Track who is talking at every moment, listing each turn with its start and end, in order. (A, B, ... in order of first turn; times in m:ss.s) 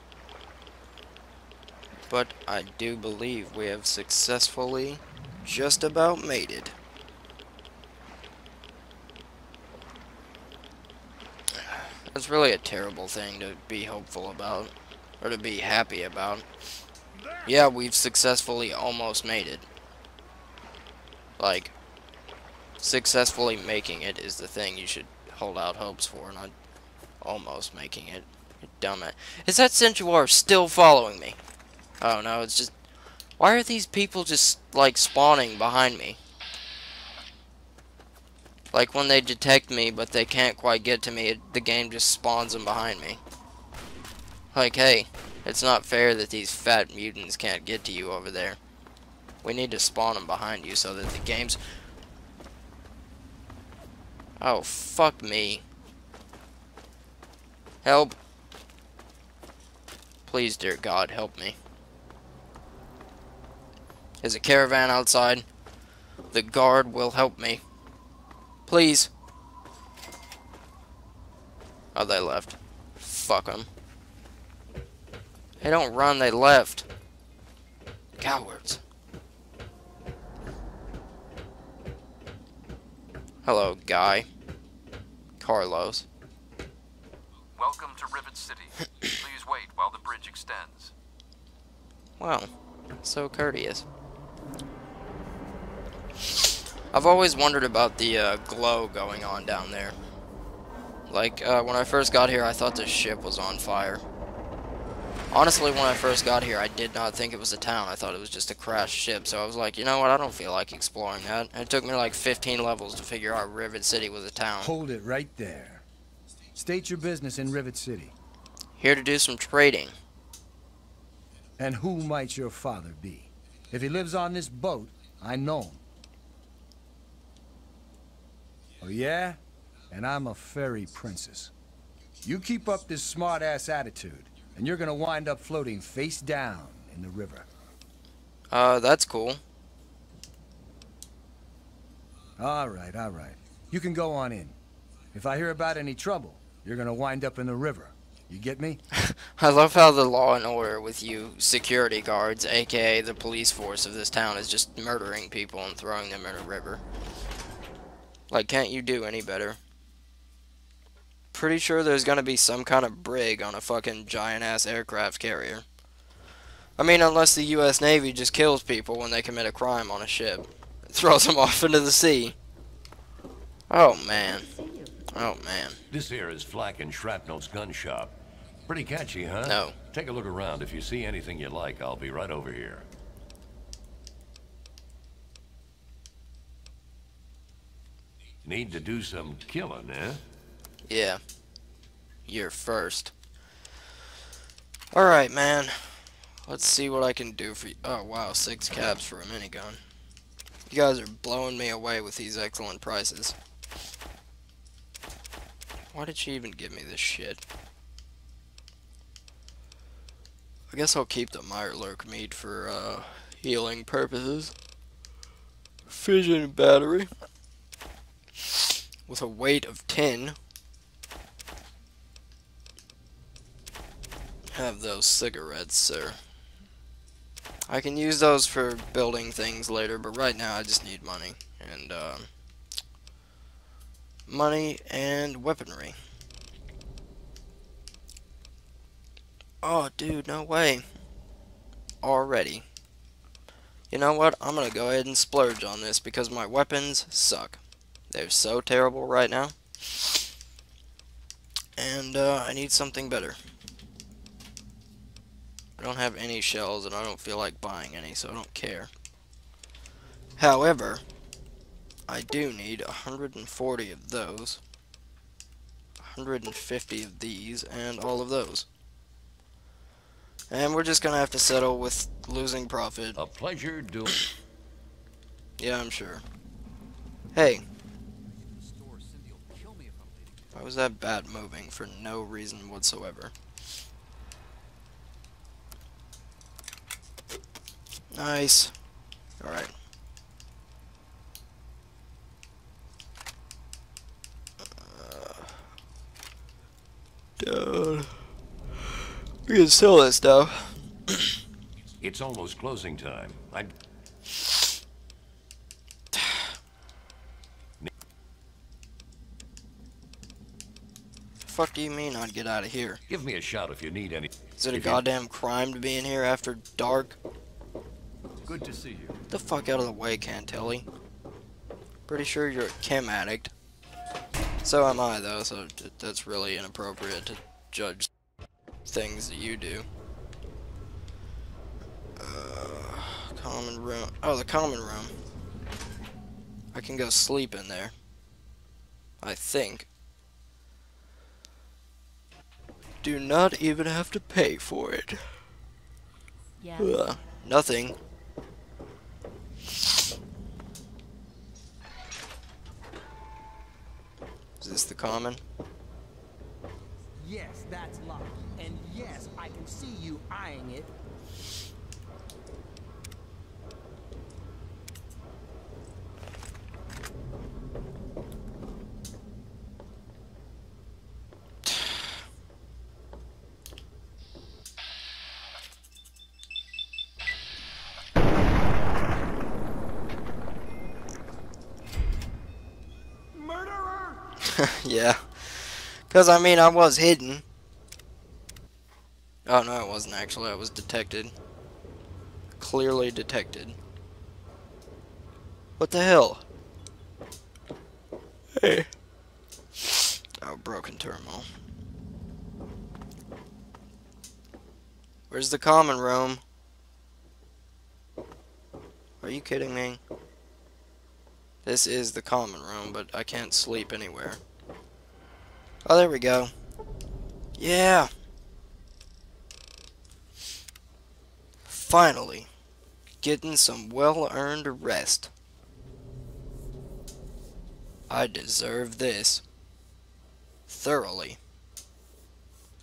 0:02.1-0:06.8 A
0:11.6-0:16.4 A
0:17.4-0:19.7 A
0:21.4-0:21.8 A
0:22.8-0:26.5 A
0:27.2-0:31.4 A
0:32.0-0:32.7 A
0:33.4-0:36.2 A
0:38.7-0:43.2 A
0:44.5-0:48.6 A
0:49.4-0:51.6 A
0:54.4-0:55.6 A
0:57.8-0:58.2 A
1:00.2-1:01.6 A
1:04.2-1:05.5 A
1:06.3-1:07.6 A
1:08.7-1:09.1 A
1:12.0-1:13.7 A
1:15.6-1:16.9 A
1:18.2-1:18.8 A
1:23.4-1:24.3 A
1:25.4-1:26.1 A
1:27.6-1:30.9 B
1:32.2-1:32.5 A
1:33.0-1:33.9 A
1:36.9-1:40.0 A
1:41.1-1:44.0 A
1:45.3-1:54.7 A
1:54.6-1:55.8 C
1:56.6-1:58.1 C
1:58.8-1:59.9 A
2:01.6-2:05.8 C
2:08.8-2:09.4 C
2:09.9-2:11.5 C
2:12.2-2:17.5 C
2:18.5-2:19.4 A
2:22.4-2:24.6 C
2:25.1-2:28.8 C
2:28.9-2:36.8 A
2:38.3-2:39.6 A
2:41.3-2:45.6 A
2:46.8-2:52.4 A
2:53.7-2:55.8 A
2:55.9-3:02.8 D
2:59.4-2:59.8 A
3:08.4-3:10.2 D
3:10.9-3:11.2 A
3:12.3-3:13.1 A
3:14.9-3:19.8 A
3:20.7-3:23.4 A
3:25.9-3:27.4 A
3:30.7-3:34.5 A
3:35.9-3:37.1 A
3:38.4-3:40.4 A
3:44.5-3:46.2 A
3:47.7-3:52.3 A
3:54.3-3:56.0 A
3:59.6-4:00.8 A
4:02.0-4:02.6 A
4:03.9-4:10.2 A
4:11.8-4:13.4 A
4:15.8-4:18.9 A
4:20.4-4:21.0 A
4:22.1-4:24.6 A
4:26.0-4:28.7 A
4:30.5-4:33.2 A
4:33.2-4:34.3 D
4:35.6-4:36.2 A
4:37.3-4:37.6 A
4:38.5-4:40.4 B
4:40.6-4:43.3 A
4:48.1-4:48.7 A
4:49.4-4:49.7 A
4:54.8-4:55.5 A
4:57.4-4:58.1 A
4:59.5-5:01.2 A
5:02.0-5:03.7 D
5:06.1-5:06.4 A
5:11.4-5:13.0 A
5:13.1-5:15.0 D
5:14.6-5:17.2 A
5:18.5-5:19.2 D
5:19.3-5:20.9 A
5:22.1-5:23.5 A
5:24.6-5:28.1 A
5:28.9-5:29.9 A
5:32.2-5:35.1 A
5:36.7-5:37.9 A
5:39.2-5:39.9 A
5:43.0-5:45.2 A
5:46.8-5:48.0 A
5:54.6-5:55.4 A
5:57.2-6:00.9 E
6:23.6-6:24.1 E
6:24.4-6:27.4 A
6:29.5-6:31.3 A
6:32.6-6:33.8 A
6:35.8-6:36.4 A
6:38.6-6:38.9 A
6:39.8-6:41.5 A
6:45.3-6:46.4 A
6:49.2-6:50.0 A
6:51.6-6:54.4 A
6:55.8-6:56.5 A
6:57.6-6:58.1 A
7:01.6-7:02.5 A
7:03.2-7:05.3 A
7:08.1-7:09.4 A
7:10.7-7:11.4 A